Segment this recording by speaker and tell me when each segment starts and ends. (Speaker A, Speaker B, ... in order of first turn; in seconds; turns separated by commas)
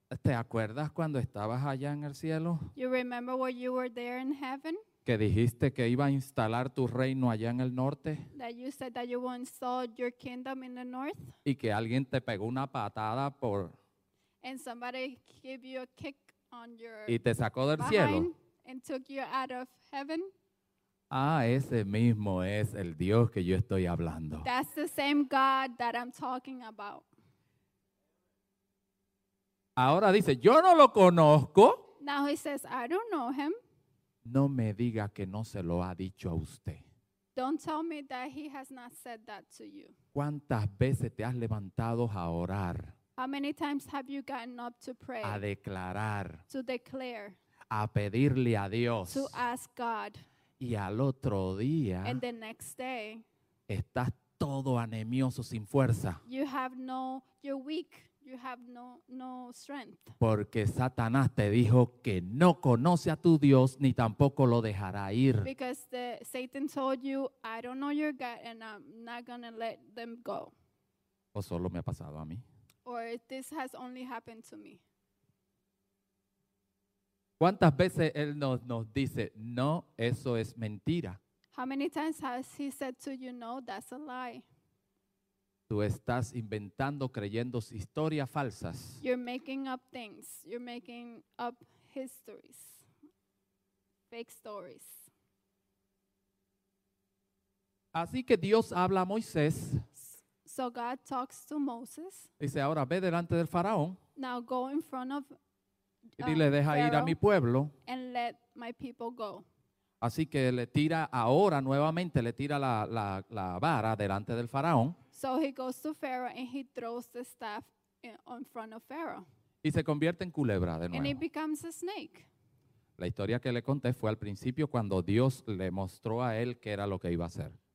Speaker A: 0.1-2.7, Speaker B: 2.7-4.8, Speaker A: 5.0-8.3, Speaker B: 8.3-11.3, Speaker A: 11.4-13.8, Speaker B: 14.4-17.2, Speaker A: 17.1-18.3, Speaker B: 17.8-20.3, Speaker A: 21.1-24.5, Speaker B: 24.4-27.1, Speaker A: 29.8-31.8, Speaker B: 32.0-33.6, Speaker A: 34.2-36.8, Speaker B: 37.3-39.9, Speaker A: 40.1-42.9, Speaker B: 43.2-45.4, Speaker A: 45.2-46.4, Speaker B: 46.5-47.4, Speaker A: 47.7-49.4, Speaker B: 49.1-50.2, Speaker A: 50.6-52.2, Speaker B: 52.0-53.2, Speaker A: 53.7-56.2, Speaker B: 56.2-60.1, Speaker A: 60.2-65.5, Speaker B: 65.4-70.5, Speaker A: 71.3-72.4, Speaker B: 72.8-74.8, Speaker A: 77.4-81.2, Speaker B: 81.5-84.5, Speaker A: 85.7-89.0, Speaker B: 89.0-92.8, Speaker B: 94.1-95.1, Speaker A: 97.9-99.8, Speaker B: 99.9-102.3, Speaker A: 102.4-104.0, Speaker B: 104.2-105.3, Speaker B: 106.2-107.2, Speaker A: 106.2-107.7, Speaker B: 107.8-109.4, Speaker A: 110.0-115.0, Speaker B: 115.1-119.2, Speaker A: 119.6-121.2, Speaker B: 120.9-122.3, Speaker A: 123.0-127.6